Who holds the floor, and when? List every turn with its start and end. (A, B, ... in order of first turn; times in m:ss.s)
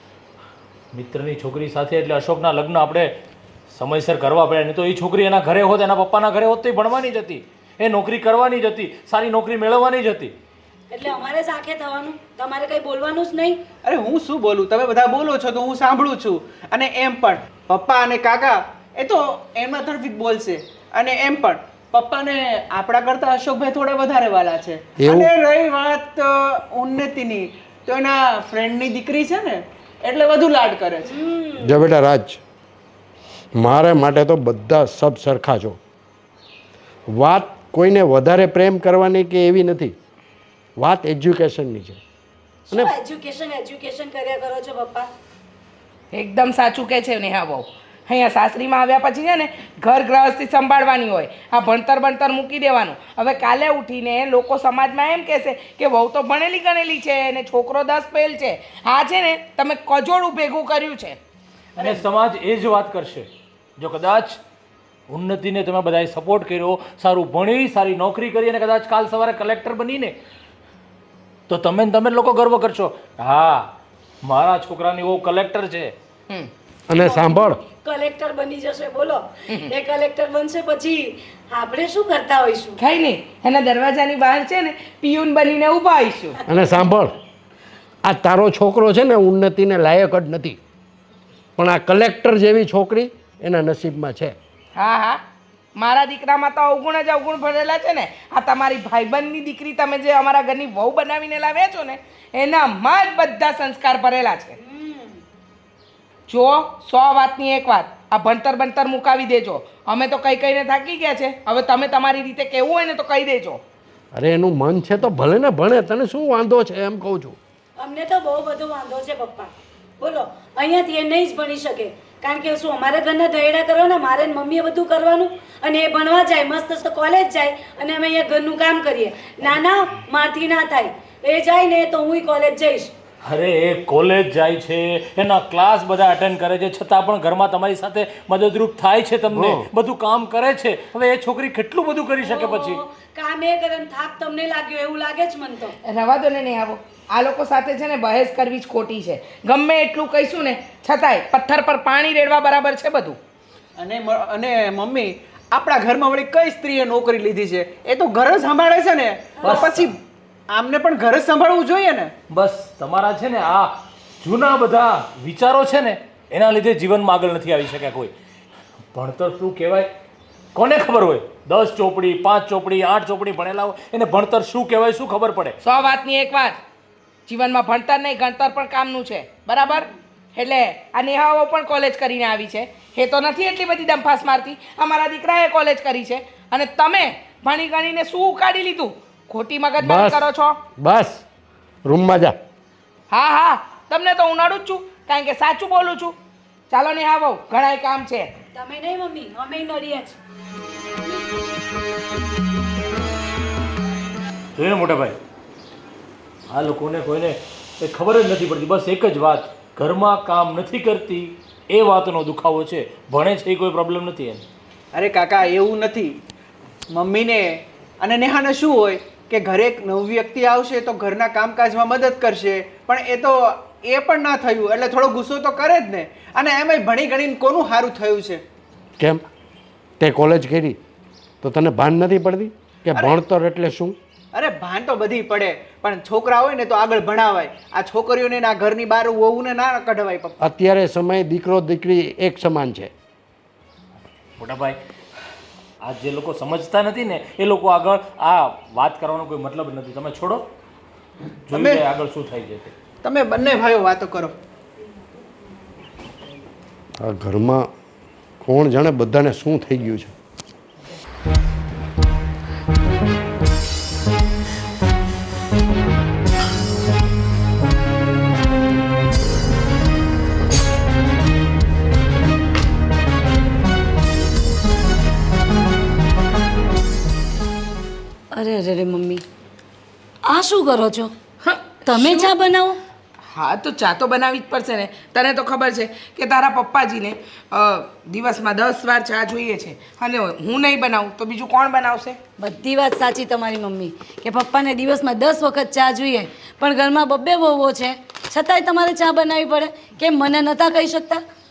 0:00.9-0:03.1 A
0:03.7-0:10.3 A
0:10.9-0:13.6 B
0:13.8-0:31.2 C
0:25.0-0:25.3 D
0:31.1-0:31.7 B
0:31.6-0:32.4 D
0:33.6-0:35.8 D
0:37.1-0:40.0 D
0:40.8-0:42.0 D
0:42.7-0:45.1 B
0:46.1-1:01.2 E
1:01.8-1:02.0 E
1:01.8-1:04.4 A
1:05.1-1:10.2 A
1:11.5-1:16.0 A
1:16.9-1:17.6 D
1:17.0-1:22.8 B
1:22.8-1:26.4 E
1:26.5-1:27.2 D
1:28.0-1:30.6 D
1:31.6-1:34.4 D
1:34.8-1:35.2 E
1:35.8-1:44.6 E
1:44.6-1:45.2 B
1:46.3-1:53.6 E
1:54.1-1:57.4 D
1:57.8-2:12.9 B
2:13.2-2:22.8 A
2:19.3-2:19.7 D
2:22.2-2:25.8 B
2:25.8-2:33.2 E
2:33.8-2:40.0 C
2:39.4-2:39.9 A
2:40.5-2:42.1 C
2:42.3-2:48.1 A
2:48.9-2:49.9 A
2:50.6-2:55.6 A
2:55.6-2:56.6 E
2:57.3-3:10.6 E
3:09.8-3:10.2 D
3:10.8-3:11.2 D
3:11.8-3:12.4 D
3:13.1-3:16.2 E
3:16.7-3:18.3 E
3:18.5-3:20.2 B
3:24.6-3:25.2 A
3:26.5-3:34.4 A
3:34.9-3:36.2 C
3:36.9-3:48.4 C
3:50.0-3:50.8 D
3:51.4-3:54.0 D
3:52.9-3:53.2 C
3:54.3-4:00.4 C
4:00.4-4:02.9 D
4:04.4-4:04.8 A
4:05.8-4:10.5 A
4:11.5-4:12.7 A
4:11.5-4:11.8 C
4:13.0-4:14.3 C
4:17.0-4:17.7 D
4:18.4-4:20.1 D
4:38.3-4:39.2 B
4:40.2-4:41.1 B
4:41.4-4:42.3 E
4:41.9-4:42.8 B
4:43.3-4:52.2 E
4:52.4-5:01.2 B